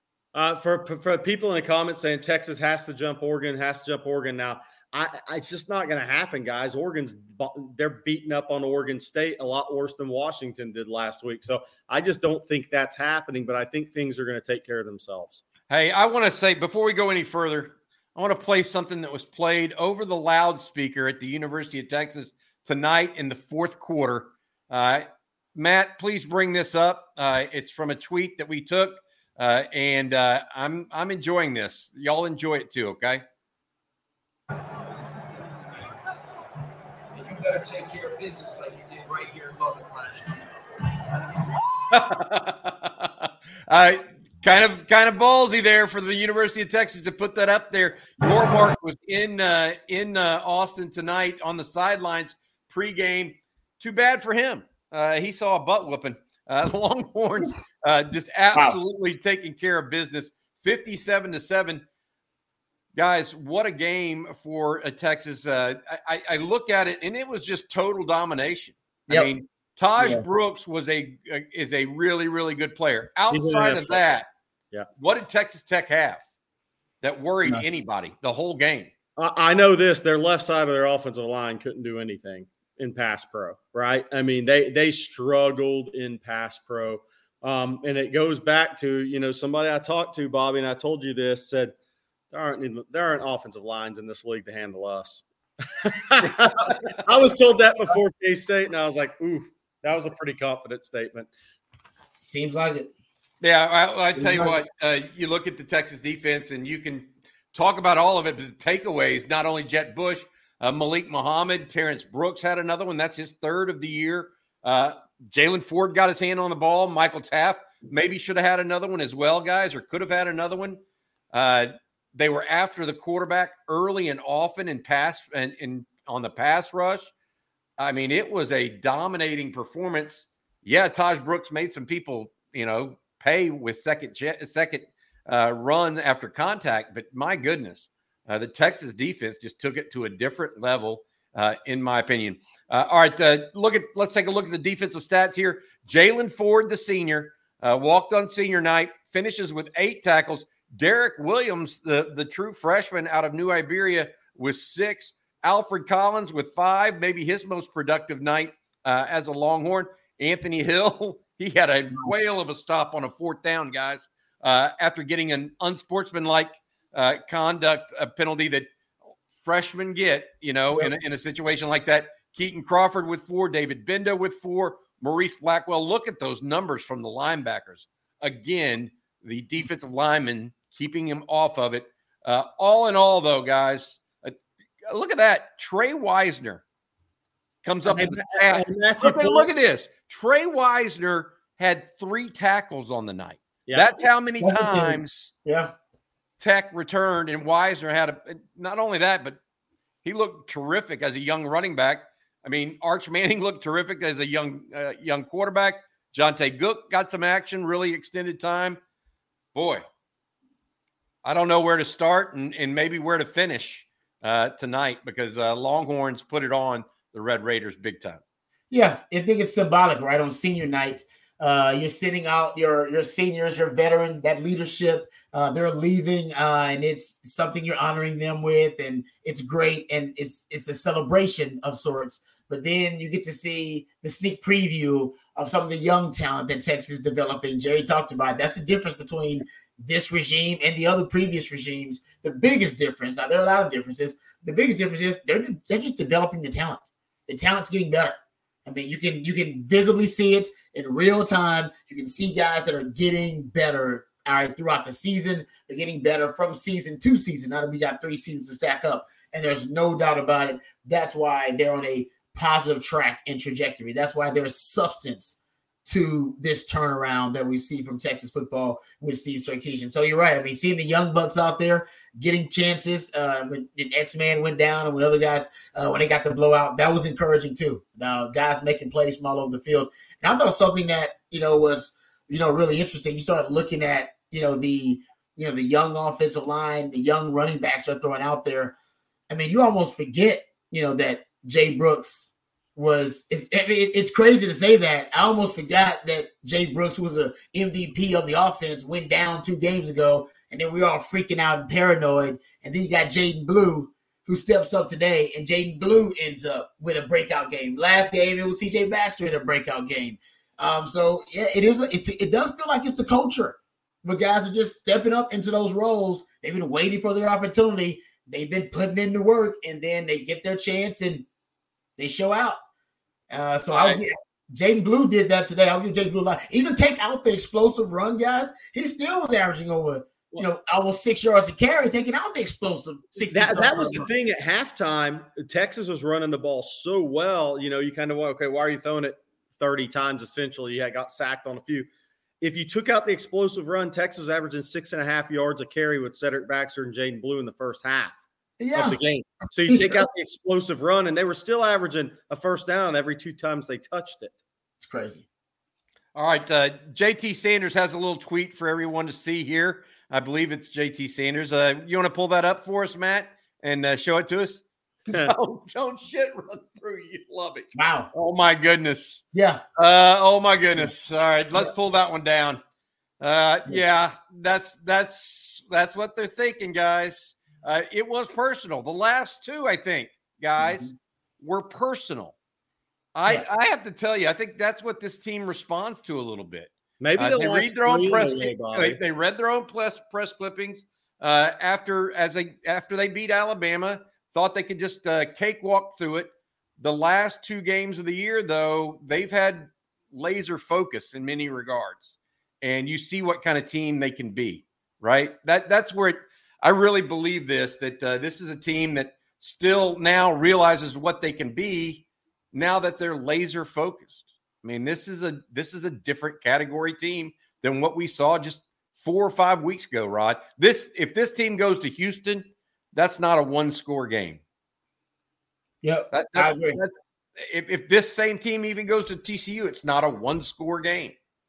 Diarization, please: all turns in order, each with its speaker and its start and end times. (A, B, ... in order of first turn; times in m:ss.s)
0:00.3-0:15.4 A
0:15.7-0:33.2 B
0:37.1-0:41.6 C
0:41.9-1:01.8 B
1:03.0-1:14.3 B
1:10.0-1:10.2 D
1:13.3-1:14.0 A
1:15.0-1:16.2 B
1:17.0-1:18.9 B
1:19.2-1:31.8 A
1:32.3-1:41.3 A
1:36.4-1:37.0 B
1:42.2-1:42.9 D
1:43.4-2:00.8 B
1:44.2-1:44.6 D
2:01.3-2:07.1 B
2:07.8-2:48.7 B
2:49.4-3:04.4 B
3:04.9-3:06.6 B
3:07.6-3:15.3 B
3:07.9-3:09.5 A
3:14.4-3:15.7 D
3:16.4-3:19.4 B
3:20.0-3:28.8 B
3:29.6-3:29.8 B
3:31.2-3:38.2 B
3:38.7-4:48.8 D
4:49.3-5:21.3 D
5:22.0-5:22.6 D
5:23.3-5:34.1 D
5:23.7-5:24.0 B
5:33.2-5:41.9 A
5:42.4-5:48.2 A
5:48.6-5:49.0 D
5:48.7-5:54.3 A
5:49.7-5:50.0 D
5:54.8-5:55.3 D
5:56.2-6:09.2 B
6:07.8-6:08.1 D
6:09.3-6:09.6 D
6:09.8-6:12.6 B
6:13.2-6:22.4 B
6:20.6-6:20.9 D
6:23.2-7:04.4 B
6:27.0-6:29.0 A
7:05.8-7:06.8 D
7:06.1-7:11.2 B